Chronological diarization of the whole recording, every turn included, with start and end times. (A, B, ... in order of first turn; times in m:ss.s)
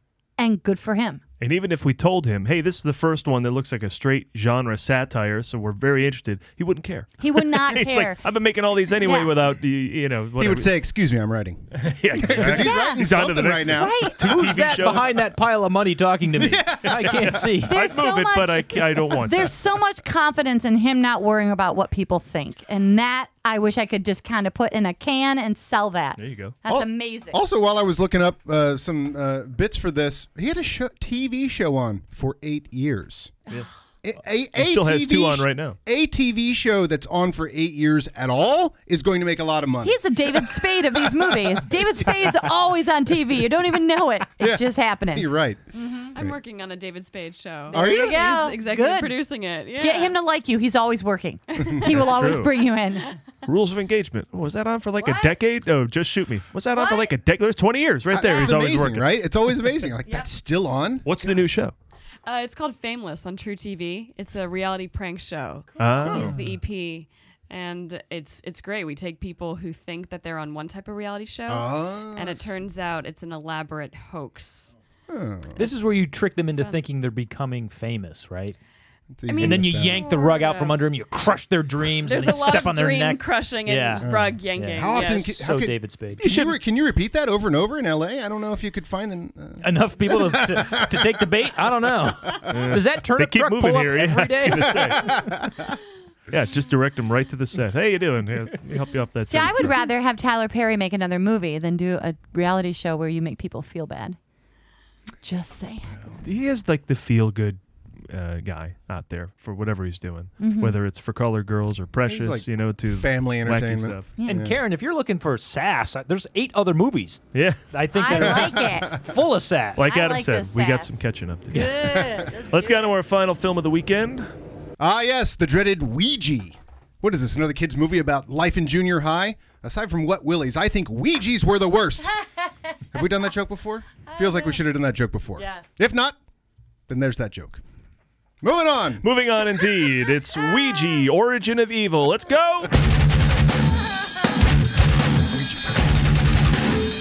0:00.4-0:01.2 A
0:01.4-0:10.7 B
0:07.2-0:08.2 A
0:09.0-0:09.3 A
0:10.4-0:14.1 C
0:11.8-0:15.2 B
0:12.4-0:13.0 A
0:13.7-0:14.2 A
0:14.2-0:17.7 D
0:16.4-0:17.6 C
0:17.0-0:19.6 B
0:17.7-0:27.4 A
0:26.2-0:26.6 B
0:26.7-0:33.4 C
0:34.0-0:41.7 C
0:34.5-0:35.8 B
0:39.8-0:46.1 A
0:44.4-0:45.6 C
0:46.1-0:50.2 E
0:47.7-0:48.3 C
0:47.7-0:49.2 A
0:49.8-0:53.1 A
0:51.6-0:51.9 E
0:51.9-0:52.6 B
0:53.5-0:59.2 B
0:55.0-0:55.3 A
0:56.7-0:57.1 A
0:58.1-1:01.4 C
1:01.0-1:01.7 B
1:02.2-1:14.7 E
1:05.8-1:06.4 B
1:06.0-1:06.4 C
1:11.5-1:12.5 C
1:15.1-1:15.6 C
1:15.6-1:18.6 D
1:19.1-1:20.1 C
1:19.3-1:20.8 E
1:19.4-1:26.3 D
1:22.0-1:25.4 E
1:24.0-1:31.0 C
1:26.2-1:26.6 B
1:29.6-1:34.8 D
1:32.5-1:35.2 B
1:34.6-1:35.7 C
1:36.3-1:39.8 B
1:39.3-1:44.2 A
1:45.2-1:45.9 A
1:46.2-1:54.1 B
1:50.4-1:50.8 A
1:52.1-1:54.6 C
1:54.3-1:59.9 D
1:57.3-1:57.6 B
1:57.9-1:59.0 A
1:58.2-1:58.9 C
1:59.8-2:04.3 B
1:59.8-2:02.9 A
2:01.8-2:02.3 C
2:04.8-2:12.1 C
2:12.9-2:16.2 C
2:14.2-2:14.5 A
2:16.9-2:17.6 C
2:18.4-2:19.0 C
2:19.0-2:22.7 B
2:25.3-2:25.8 C